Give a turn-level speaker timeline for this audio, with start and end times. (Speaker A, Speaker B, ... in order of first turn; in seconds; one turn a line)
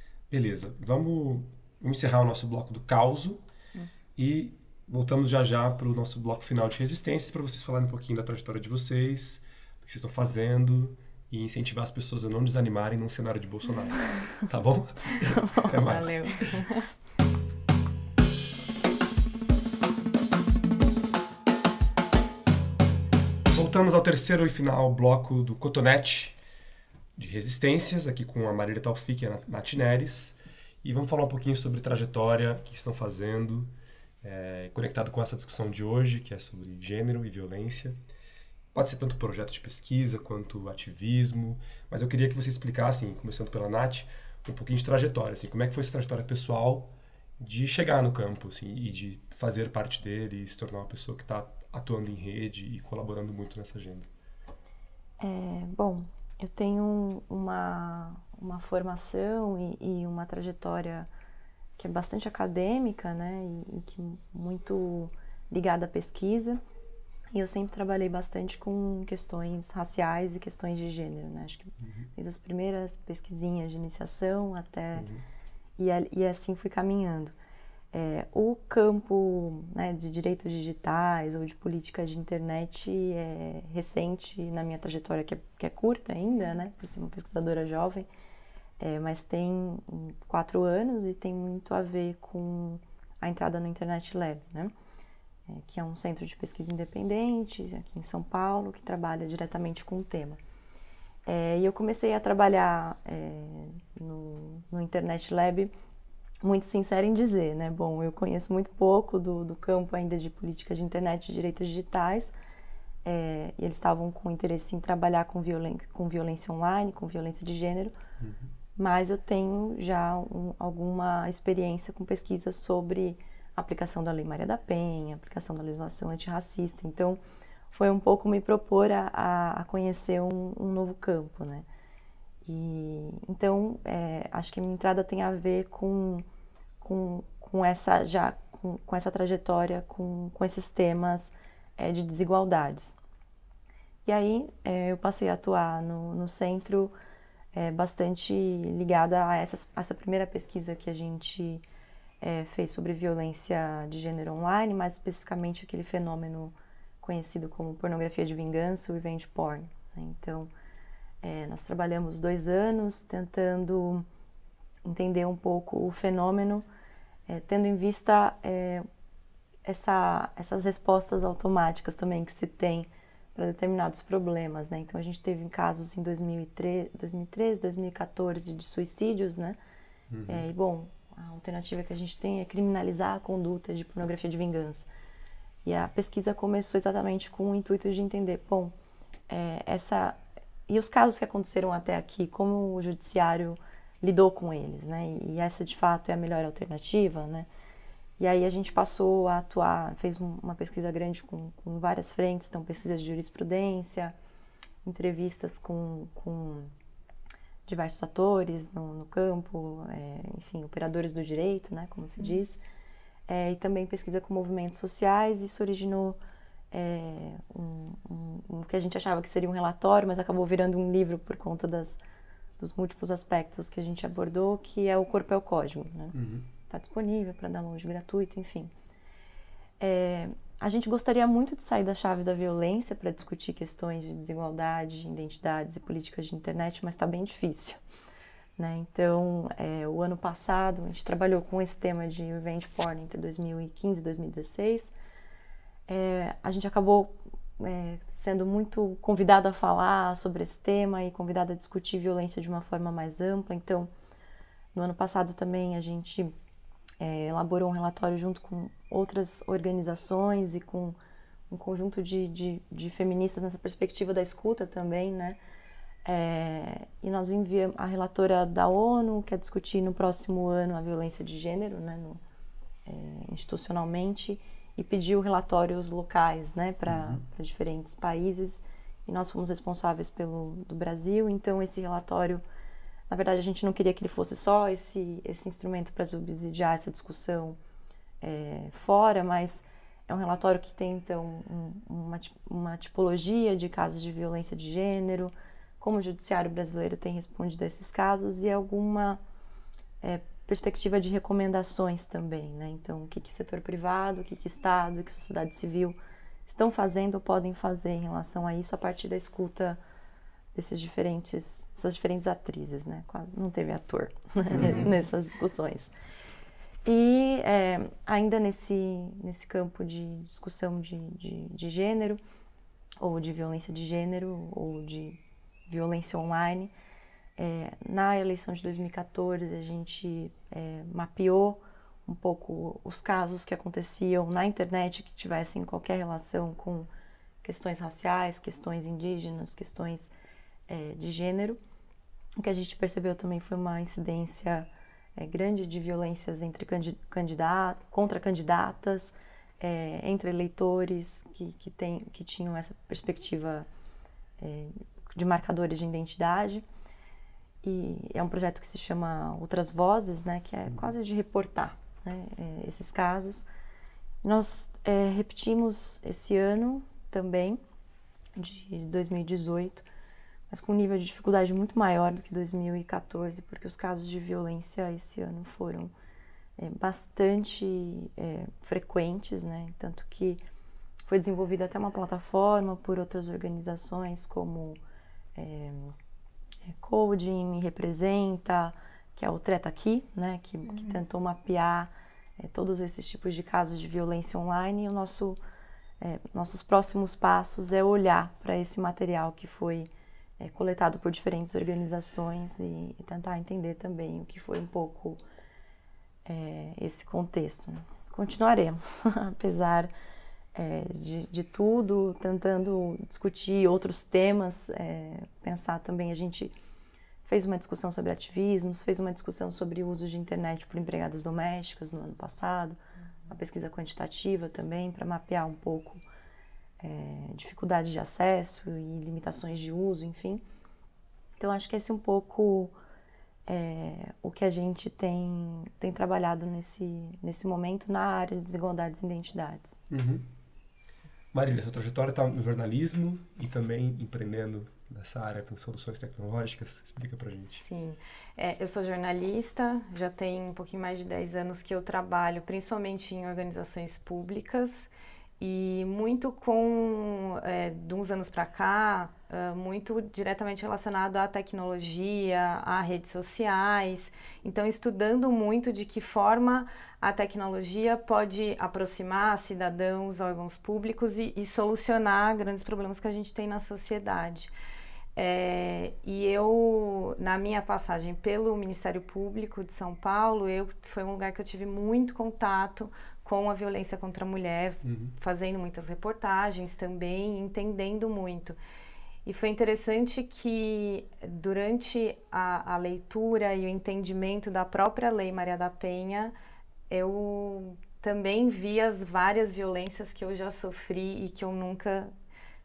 Speaker A: 0.3-3.4
Speaker A: 4.2-16.4
Speaker B: 15.3-16.5
Speaker C: 15.9-16.6
Speaker A: 23.5-26.4
Speaker A: 27.2-38.0
Speaker A: 38.7-54.1
Speaker B: 55.2-61.1
Speaker B: 61.8-66.6
Speaker B: 67.3-75.1
Speaker A: 71.8-72.1
Speaker A: 74.9-75.2
Speaker B: 75.8-77.3
Speaker B: 77.9-88.1
Speaker B: 88.8-94.7
Speaker B: 95.5-100.4
Speaker B: 101.3-105.7
Speaker B: 106.4-112.3
Speaker B: 113.0-117.9
Speaker A: 118.2-118.5
Speaker B: 118.8-127.2
Speaker B: 127.7-131.7
Speaker B: 132.4-136.3
Speaker B: 136.8-143.0
Speaker B: 144.1-146.9
Speaker B: 147.5-151.6
Speaker B: 152.2-160.5
Speaker B: 161.2-164.1
Speaker B: 164.8-166.7
Speaker B: 167.3-168.8
Speaker B: 169.7-179.6
Speaker A: 180.1-180.5
Speaker B: 180.3-184.9
Speaker B: 185.7-188.8
Speaker B: 189.3-197.5
Speaker B: 198.2-204.2
Speaker B: 204.8-206.7
Speaker B: 207.7-212.6
Speaker B: 213.3-216.2
Speaker B: 216.7-222.0
Speaker B: 222.6-226.2
Speaker A: 226.1-226.5
Speaker B: 226.7-228.7
Speaker B: 229.8-237.8
Speaker B: 238.6-244.9
Speaker B: 245.9-253.9
Speaker B: 254.7-256.3
Speaker B: 257.0-261.0
Speaker B: 261.5-265.4
Speaker B: 266.1-272.2
Speaker B: 272.9-282.4
Speaker A: 276.9-277.2
Speaker B: 283.1-287.6
Speaker B: 288.2-299.2
Speaker B: 300.0-309.8
Speaker B: 310.5-315.9
Speaker A: 314.5-314.9
Speaker B: 316.9-322.2
Speaker B: 323.0-326.7
Speaker B: 327.4-336.9
Speaker B: 337.4-340.1
Speaker B: 340.7-341.6
Speaker B: 342.4-353.7
Speaker B: 354.4-356.6
Speaker B: 357.6-363.5
Speaker B: 364.2-367.6
Speaker B: 368.4-369.9
Speaker B: 370.5-375.9
Speaker B: 376.6-380.4
Speaker B: 381.1-384.8
Speaker B: 385.4-385.9
Speaker B: 386.7-395.4
Speaker B: 396.0-399.9
Speaker B: 400.4-405.2
Speaker B: 406.2-409.9
Speaker B: 410.6-416.5
Speaker B: 417.2-426.0
Speaker B: 426.8-430.4
Speaker B: 431.4-432.8
Speaker B: 433.5-439.8
Speaker A: 439.9-440.3
Speaker A: 441.3-447.6
Speaker C: 447.6-474.5
Speaker C: 475.1-488.6
Speaker A: 484.8-485.1
Speaker C: 489.2-496.3
Speaker C: 496.9-502.1